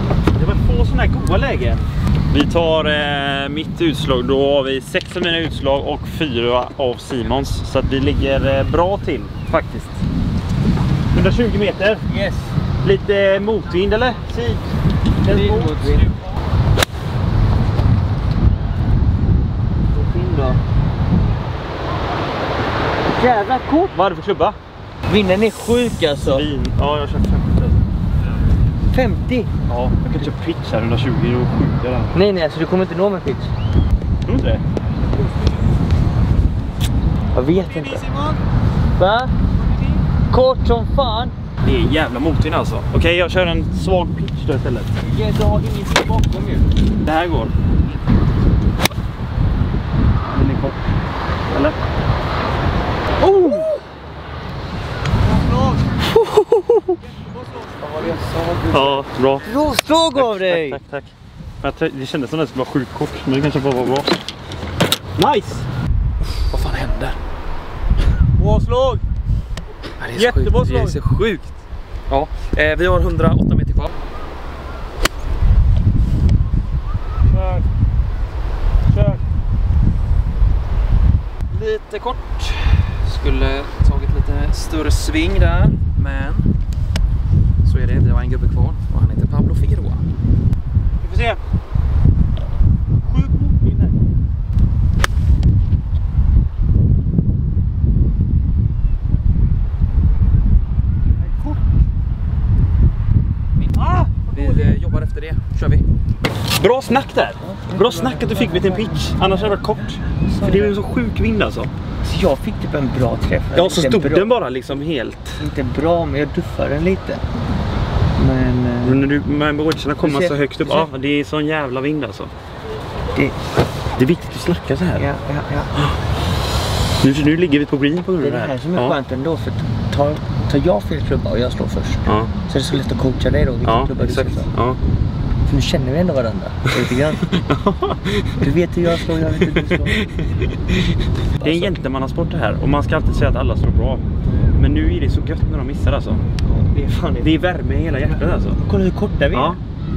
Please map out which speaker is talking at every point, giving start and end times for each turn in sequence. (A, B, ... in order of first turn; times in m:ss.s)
0:00.3-0:10.0 A
0:11.1-0:12.0 A
0:12.1-0:12.5 B
0:12.8-0:14.6 A
0:15.2-0:16.1 B
0:15.2-0:15.8 A
0:19.9-0:20.6 B
0:23.1-0:23.9 B
0:23.9-0:24.6 A
0:25.1-0:26.5 B
0:26.2-0:27.8 A
0:28.9-0:29.5 B
0:29.7-0:32.2 A
0:32.1-0:33.5 B
0:34.2-0:34.6 A
0:35.1-0:35.5 C
0:37.3-0:38.0 B
0:37.5-0:38.4 C
0:39.0-0:39.3 B
0:39.5-0:40.0 C
0:40.3-0:41.3 B
0:41.6-0:44.9 A
0:45.0-0:46.7 B
0:47.0-0:47.5 A
0:50.3-0:50.8 A
0:51.5-0:51.8 A
0:53.2-0:53.8 B
0:55.2-0:55.8 C
0:56.1-0:57.0 A
0:57.0-0:58.1 C
0:57.8-1:00.8 B
0:58.7-0:59.5 A
1:00.1-1:04.1 A
1:05.2-1:05.6 A
1:06.5-1:07.2 D
1:08.4-1:09.0 C
1:10.0-1:11.4 D
1:10.1-1:11.0 C
1:12.1-1:13.9 D
1:17.3-1:17.6 C
1:18.9-1:19.2 C
1:21.5-1:26.4 D
1:27.6-1:30.0 D
1:31.0-1:31.4 C
1:33.0-1:34.0 C
1:41.2-1:41.6 C
1:43.6-1:45.8 D
1:43.8-1:44.7 C
1:46.5-1:51.7 A
1:47.4-1:49.6 B
1:50.2-1:50.8 B
1:52.0-1:54.3 B
1:53.5-1:55.4 A
1:55.4-1:57.2 B
1:58.2-1:59.0 B
1:58.8-2:02.3 A
2:00.0-2:00.9 B
2:04.0-2:05.0 A
2:05.0-2:05.7 B
2:07.0-2:09.0 A
2:08.2-2:14.5 B
2:12.0-2:12.3 A
2:13.6-2:14.8 A
2:15.4-2:17.4 B
2:17.4-2:18.4 A
2:18.4-2:20.1 B
2:19.4-2:20.1 A
2:21.3-2:21.7 B
2:21.4-2:24.0 A
2:24.6-2:26.2 A
2:26.4-2:27.3 B
2:27.2-2:28.6 A
2:28.6-2:29.6 B
2:29.3-2:29.6 A